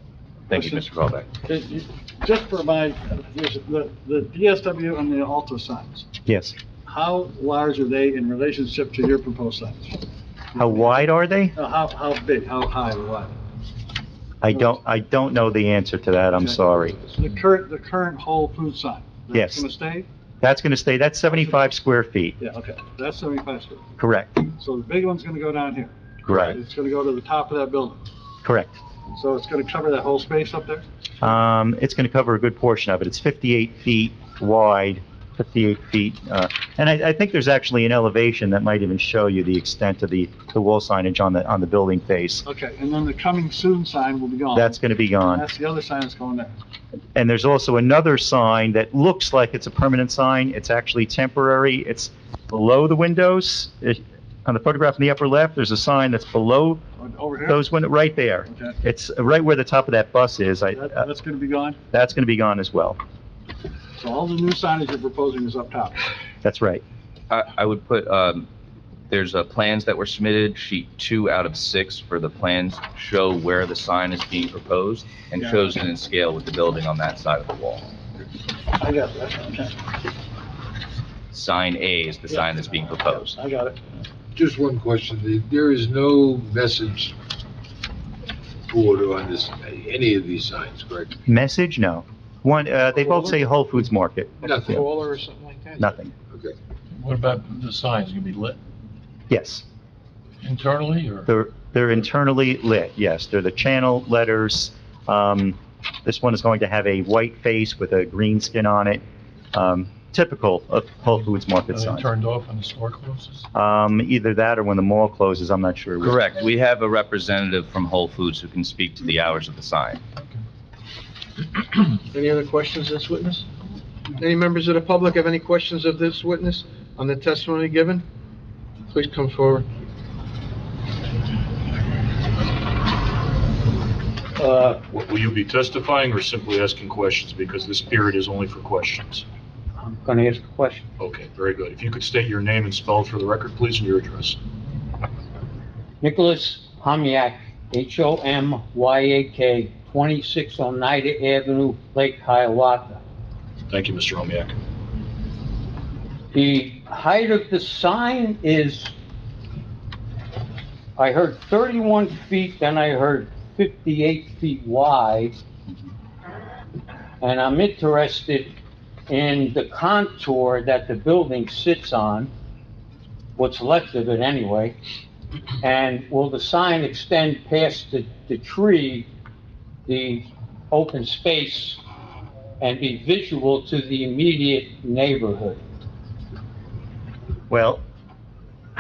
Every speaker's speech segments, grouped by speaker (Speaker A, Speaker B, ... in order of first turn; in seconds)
Speaker A: 0.5-1.3, 67.3-68.5, 69.1-77.9, 81.3-83.4, 116.0-120.0
Speaker B: 1.5-6.1, 6.9-10.0, 10.6-13.3, 16.4-20.1, 21.3-21.7, 22.4-23.9, 24.6-28.0, 29.1-30.8, 42.5-46.5, 57.0-57.6, 58.5-58.8, 60.7-61.8, 64.0-66.0, 78.8-79.8, 83.1-83.8
Speaker C: 6.3-6.5, 10.6-11.6, 14.4-17.0, 19.3-19.6, 20.4-22.4, 24.0-24.4, 26.3-26.6, 28.4-28.8, 31.2-42.4, 44.5-45.5, 47.1-56.8, 57.5-61.0, 61.9-63.0, 66.4-66.8, 91.3-94.8, 95.8-96.1, 99.3-99.6, 101.3-112.1, 113.5-116.2, 187.5-187.8
Speaker D: 84.3-87.1, 88.7-91.1, 94.5-94.8, 96.3-96.5
Speaker E: 93.0-93.4, 94.4-96.0, 122.1-123.5, 124.2-128.1, 128.9-129.7
Speaker F: 96.9-98.6, 100.4-101.3, 111.7-113.4
Speaker G: 134.4-134.8, 139.8-140.9, 146.0-153.0, 156.3-158.9, 161.0-165.4, 167.2-168.5, 169.1-172.3, 173.4-174.8, 175.6-179.1, 179.9-181.8, 182.6-185.6
Speaker H: 134.9-139.3, 141.0-144.4, 153.7-154.6